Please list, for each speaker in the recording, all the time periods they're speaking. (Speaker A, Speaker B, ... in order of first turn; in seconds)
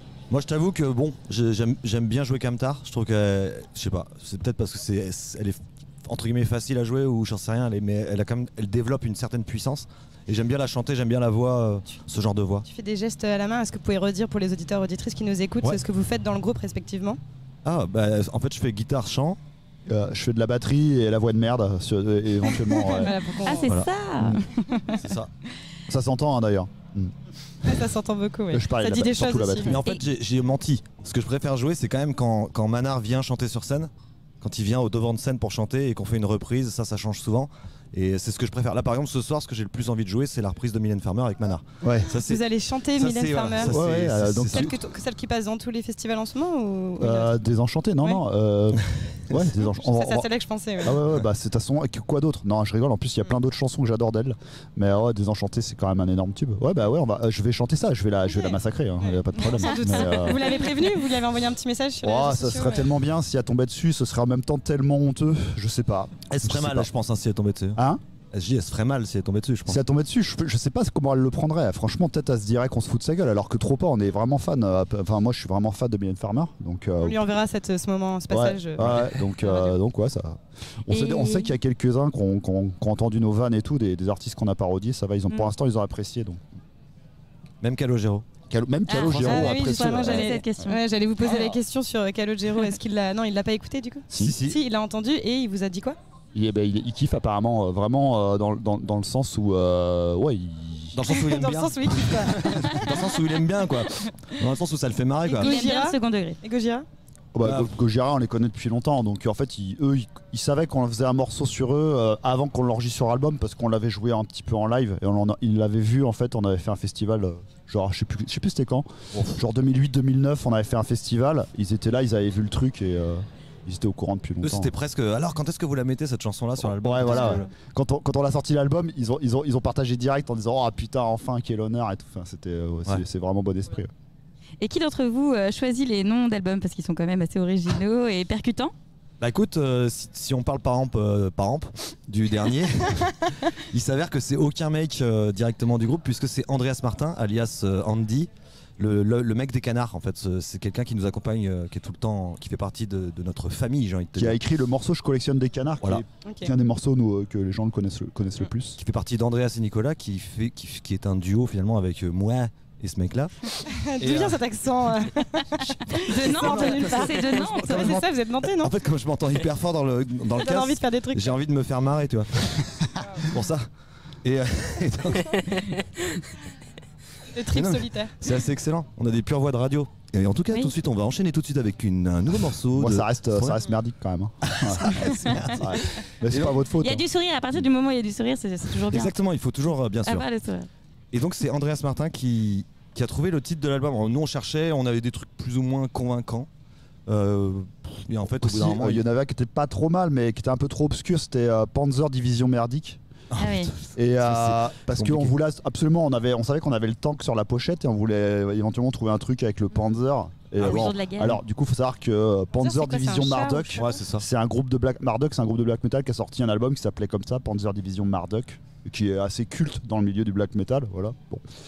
Speaker A: 0.3-12.7, 17.6-19.4, 25.0-25.3, 29.6-44.8, 66.3-67.8, 68.3-69.8, 78.8-79.2, 87.6-88.2, 89.0-89.6, 94.1-94.6, 100.9-105.5, 107.4-107.8, 119.1-119.4, 124.4-127.5, 139.2-154.4, 158.8-164.4, 166.1-172.6, 173.3-173.7, 174.2-176.3, 177.5-183.7, 184.5-186.6, 188.9-190.3, 191.1-196.5, 197.1-199.1, 203.3-205.3, 210.6-210.9, 213.8-214.2
Speaker B: 12.7-17.2, 22.7-23.8, 27.6-29.8, 42.2-43.8, 44.5-47.3, 49.6-51.0, 59.0-62.9, 77.0-79.7, 89.2-96.0, 101.1-103.0, 105.3-106.9, 156.2-156.5, 163.7-168.7, 170.4-171.4, 177.3-178.1, 212.6-213.9
Speaker C: 19.9-23.1, 25.9-27.1, 28.5-29.8, 41.8-42.1, 43.6-44.7, 47.0-50.3, 50.8-60.5, 62.0-66.9, 67.8-68.0, 69.7-77.2, 78.3-86.4, 88.5-90.6, 96.3-101.0, 107.3-124.7, 126.6-133.9, 154.2-158.8, 182.7-184.9, 185.4-187.0, 198.3-203.0, 203.9-221.4
Speaker D: 23.4-25.0, 80.9-81.5, 88.9-91.5, 105.4-106.4, 134.6-138.7, 165.9-167.9, 186.8-189.1, 190.0-190.7, 203.4-203.7, 210.6-211.4